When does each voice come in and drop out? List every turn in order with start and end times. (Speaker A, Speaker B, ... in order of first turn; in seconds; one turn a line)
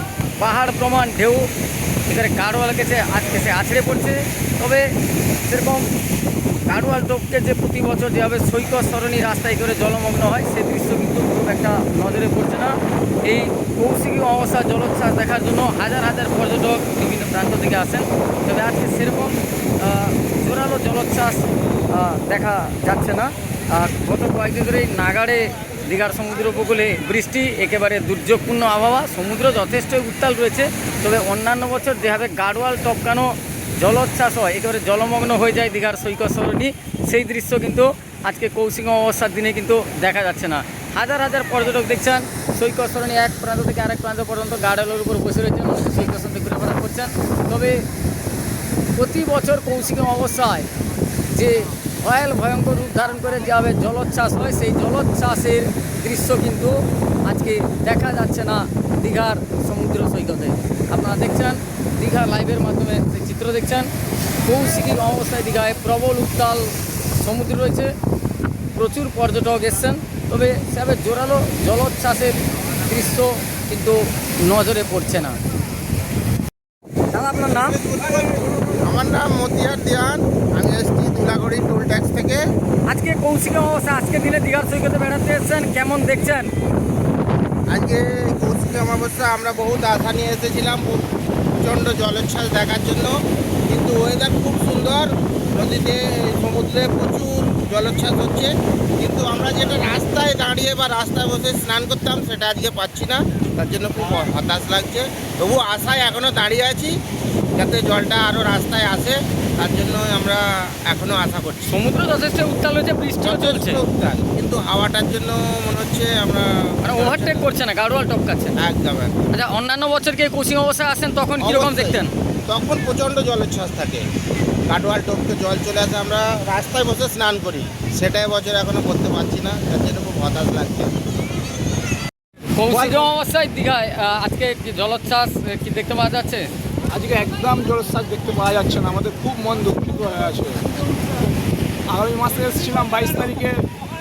Speaker A: 0.4-1.5
Speaker A: 2.1-5.9
Speaker A: 6.7-47.9
Speaker A: 49.0-50.7
Speaker A: 51.3-63.9
Speaker A: 64.4-67.9
Speaker A: 68.7-75.4
Speaker A: 77.1-77.8
Speaker B: 77.3-82.4
Speaker A: 82.9-86.5
Speaker B: 87.7-91.0
Speaker B: 91.6-93.1
Speaker B: 93.7-107.0
Speaker B: 107.5-111.7
Speaker A: 111.7-113.8
Speaker B: 113.2-117.5
Speaker A: 116.8-118.5
Speaker B: 118.6-119.1
Speaker A: 119.3-122.1
Speaker B: 121.4-124.0
Speaker B: 124.7-130.9
Speaker A: 132.6-136.5
Speaker C: 132.7-133.1
Speaker C: 136.9-140.6
Speaker C: 141.9-143.7